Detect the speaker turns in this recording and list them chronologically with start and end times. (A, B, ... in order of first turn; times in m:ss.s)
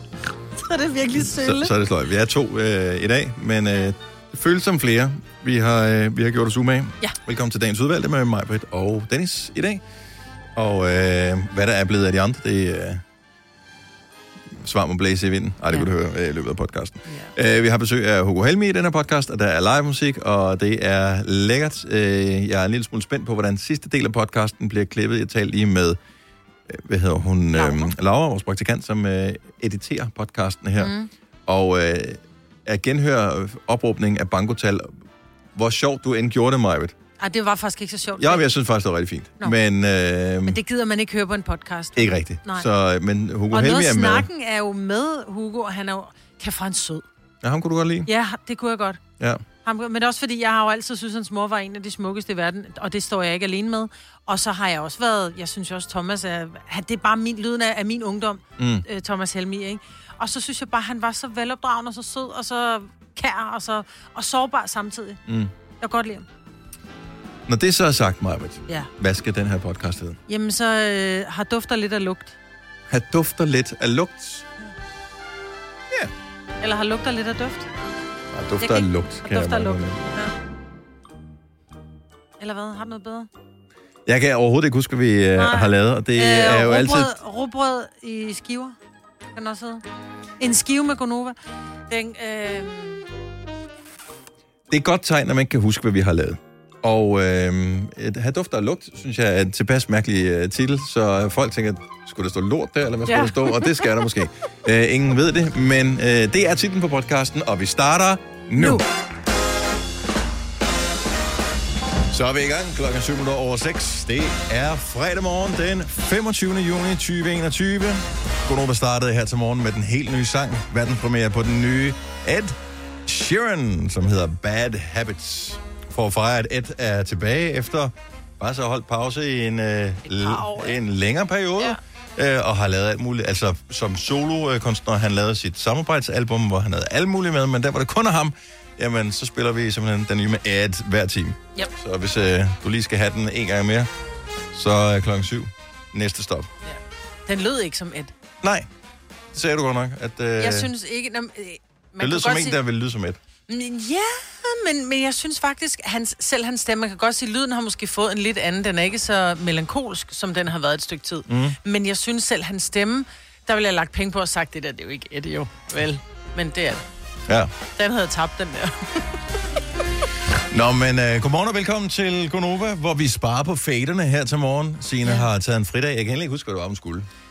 0:00.6-0:01.7 A
0:01.2-0:09.8 B
0:10.6-0:13.0 B
0:14.5-0:26.0 B
0:17.1-0:17.3 A
0:26.7-0:30.9 B
0:27.5-0:27.9 A
0:30.8-0:31.1 A
0:31.5-0:34.9 B
0:35.5-0:36.9 B
0:37.2-0:38.5 A
0:38.2-0:40.6 B
0:40.4-0:42.7 A
0:42.0-0:44.3 B
0:43.5-0:47.0 A
0:47.4-0:48.1 B
0:48.0-0:49.0 A
0:49.6-1:05.2 A
0:58.6-0:58.8 B
1:05.3-1:05.5 B
1:05.8-1:06.2 A
1:07.5-1:10.2 B
1:10.3-1:12.4 A
1:12.9-1:14.4 B
1:16.6-1:17.7 A
1:18.3-1:20.1 B
1:18.6-1:20.3 A
1:22.4-1:23.3 A
1:24.0-1:27.1 B
1:25.4-1:28.8 A
1:29.3-1:29.8 A
1:30.4-1:31.4 A
1:31.9-1:33.0 A
1:34.7-1:48.8 B
1:43.1-1:44.0 A
1:48.6-1:48.8 A
1:52.1-2:23.9 B
2:10.0-2:10.8 A
2:24.5-2:26.5 B
2:26.6-2:28.1 A
2:28.4-2:28.7 B
2:29.3-2:30.7 B
2:30.4-2:32.6 A
2:32.0-2:33.2 B
2:33.5-2:46.8 A
2:41.3-2:41.6 B
2:47.3-2:47.5 B
2:47.8-2:49.1 A
2:50.5-2:57.1 B